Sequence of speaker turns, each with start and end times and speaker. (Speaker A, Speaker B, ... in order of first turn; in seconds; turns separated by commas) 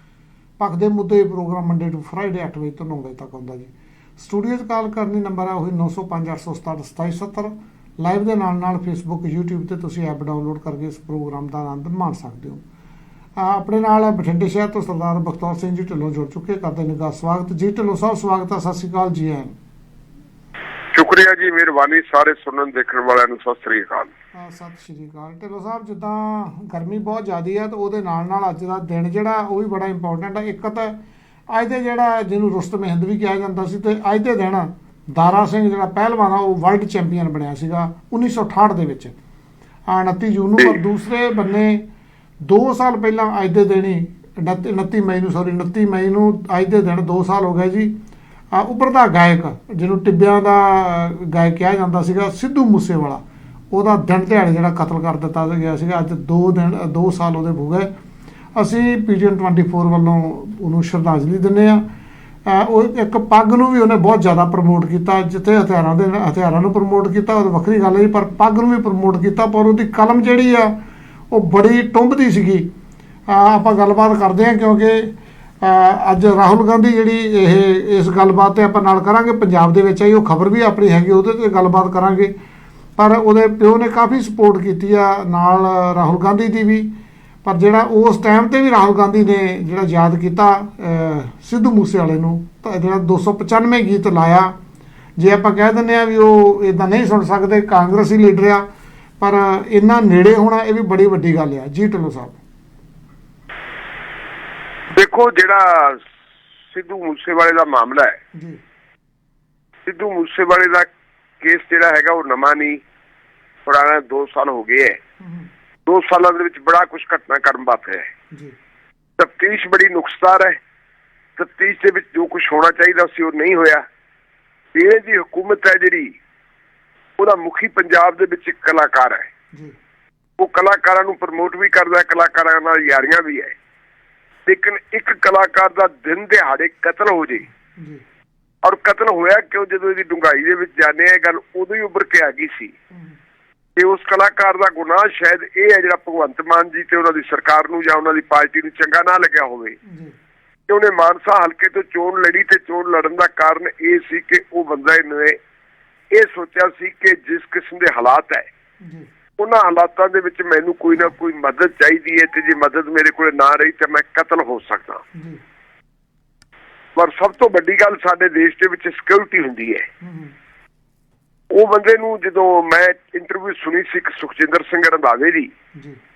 Speaker A: 0.6-12.6, Speaker A: 13.4-19.6, Speaker B: 20.9-24.1, Speaker A: 24.3-30.9, Speaker A: 31.5-39.2, Speaker A: 39.9-41.8, Speaker A: 42.4-47.9, Speaker A: 48.5-57.9, Speaker A: 58.5-61.8, Speaker A: 62.5-70.8, Speaker A: 71.3-72.7, Speaker A: 73.3-82.3, Speaker A: 83.0-86.9, Speaker A: 87.4-94.5, Speaker A: 95.2-98.7, Speaker A: 99.2-102.4, Speaker B: 104.9-106.0, Speaker B: 106.7-108.2, Speaker B: 109.8-110.9, Speaker B: 111.4-112.8, Speaker B: 113.7-115.0, Speaker B: 115.8-118.1, Speaker B: 119.2-120.6, Speaker B: 121.4-123.8, Speaker B: 124.8-126.1, Speaker B: 127.2-129.3, Speaker B: 130.4-133.5, Speaker B: 134.5-137.5, Speaker A: 137.8-138.0, Speaker B: 138.6-142.8, Speaker B: 143.8-149.8, Speaker A: 149.9-150.1, Speaker B: 150.7-155.4, Speaker B: 156.1-158.5, Speaker B: 159.4-165.0, Speaker B: 166.9-169.9, Speaker A: 170.1-170.3, Speaker B: 171.5-175.5